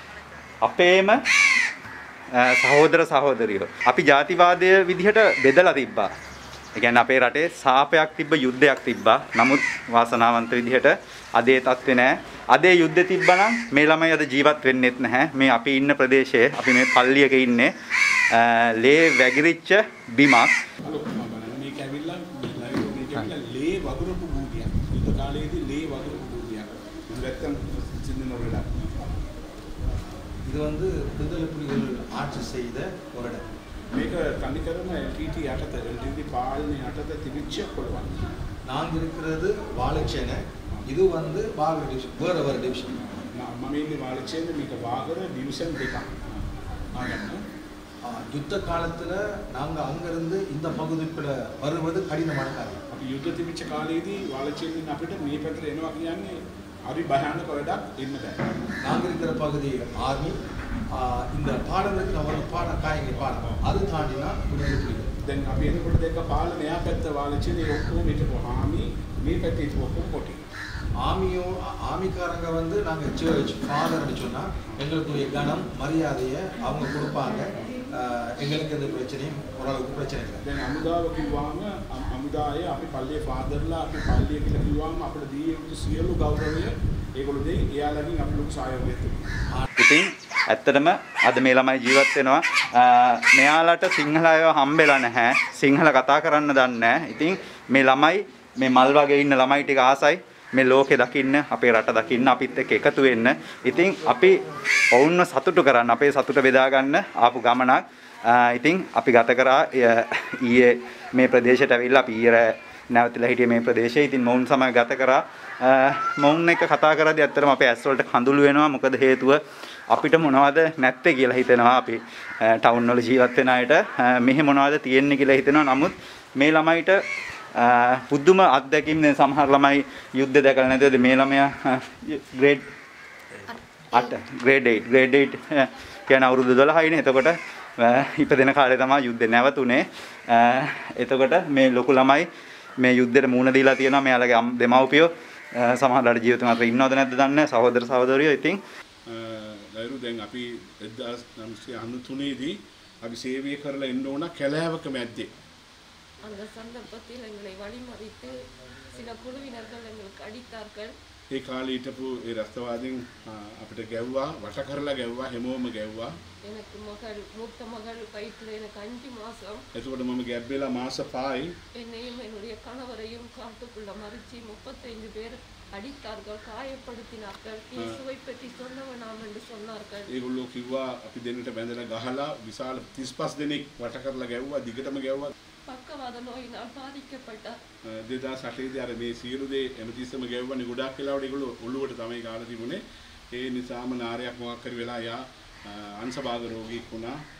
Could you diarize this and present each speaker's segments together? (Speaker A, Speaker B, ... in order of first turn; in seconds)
Speaker A: 0.6-1.2, 2.3-6.1, 6.8-17.7, 18.3-20.6, 89.8-127.0, 127.5-132.6, 133.9-148.6
Speaker B: 20.9-29.1, 33.9-38.2, 43.1-46.4, 47.0-47.4, 52.9-58.4, 65.2-70.5, 80.5-89.3, 149.2-155.2, 161.3-166.1, 169.8-171.5, 180.2-185.3, 188.1-192.8, 193.3-195.2, 195.7-197.1
Speaker C: 30.5-33.4, 38.7-43.0, 48.0-52.8, 58.8-60.4, 60.9-65.1, 71.0-80.4
Speaker D: 156.2-158.4, 158.9-160.9, 166.4-169.6, 171.7-180.1, 185.7-187.6